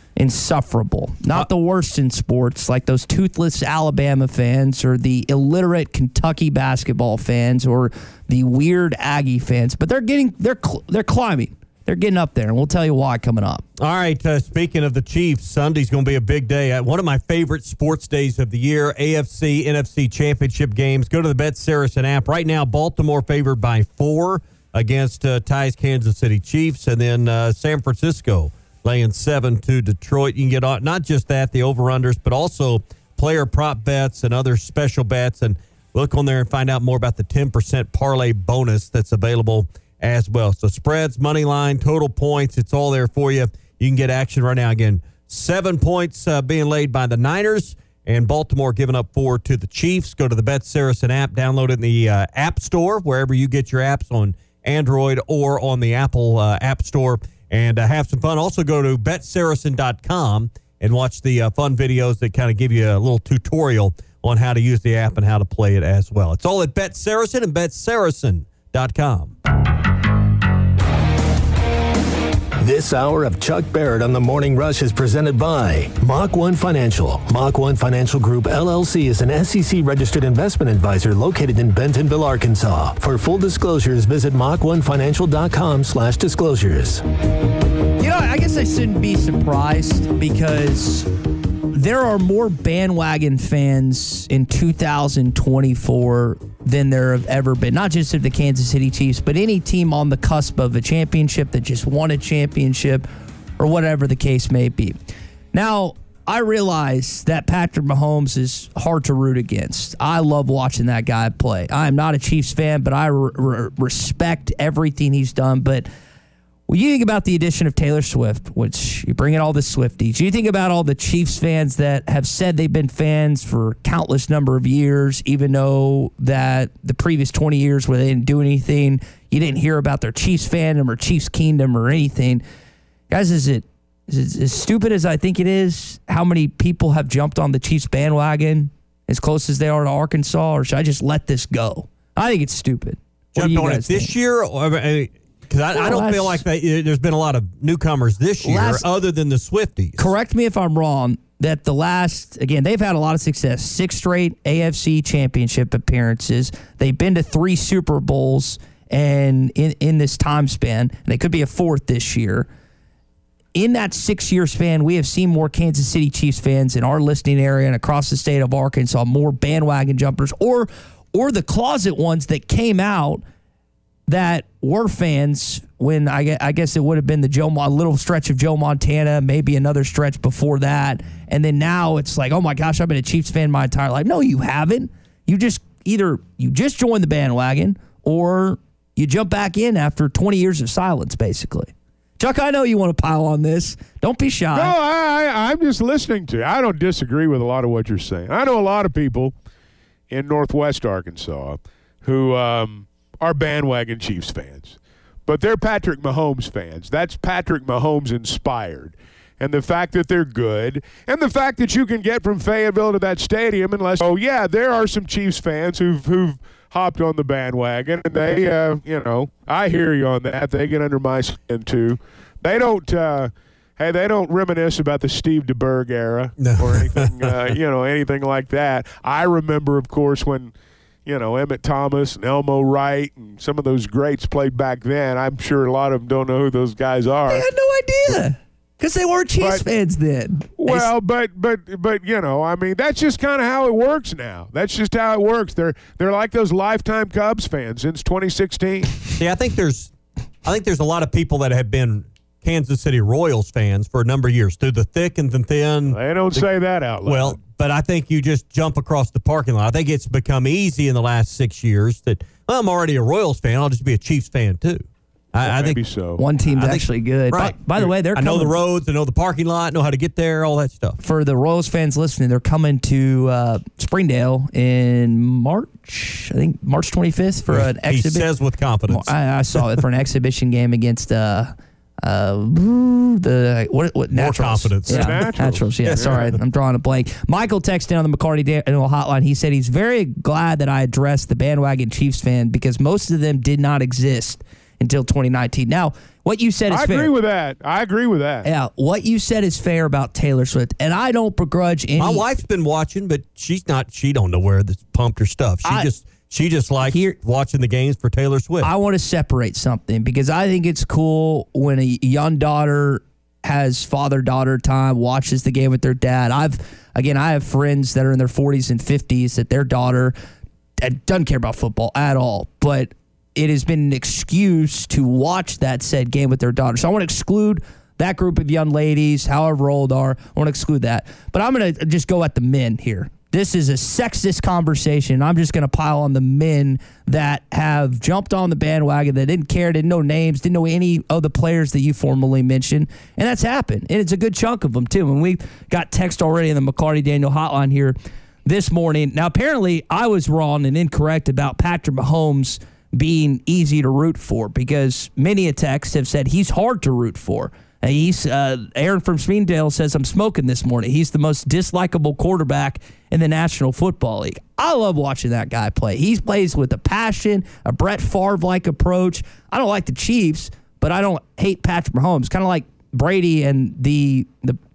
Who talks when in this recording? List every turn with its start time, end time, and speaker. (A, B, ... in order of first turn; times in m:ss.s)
0:00.2-0:13.6 A
0:13.8-1:09.3 B
1:12.6-1:27.0 C
1:28.0-1:31.1 A
1:31.7-1:43.1 A
1:43.6-1:45.0 A
1:45.5-1:55.9 A
1:56.7-2:12.4 A
2:13.1-2:24.1 A
2:23.4-2:30.1 B
2:25.7-2:26.4 A
2:28.4-2:28.8 A
2:30.0-2:42.5 A
2:43.6-2:53.2 A
2:54.1-3:14.7 A
3:14.5-3:19.3 D
3:20.1-3:50.5 D
3:46.4-3:47.5 B
3:51.1-3:57.5 D
3:57.3-4:00.9 A
4:00.6-4:09.0 D
4:09.2-4:09.9 B
4:10.4-4:16.5 B
4:15.9-4:17.4 D
4:17.0-4:25.8 B
4:25.4-4:26.2 D
4:26.2-4:28.5 A
4:26.4-4:31.0 B
4:31.0-4:38.3 A
4:37.5-4:39.1 B
4:38.9-4:57.1 A
4:44.1-4:45.3 B
4:44.9-4:46.2 D
4:45.8-4:46.3 B
4:56.7-4:58.5 D
4:58.4-5:02.2 A
5:02.0-5:08.7 B
5:05.6-5:05.9 A
5:06.8-5:07.2 A
5:08.6-5:20.2 A
5:20.8-6:14.6 A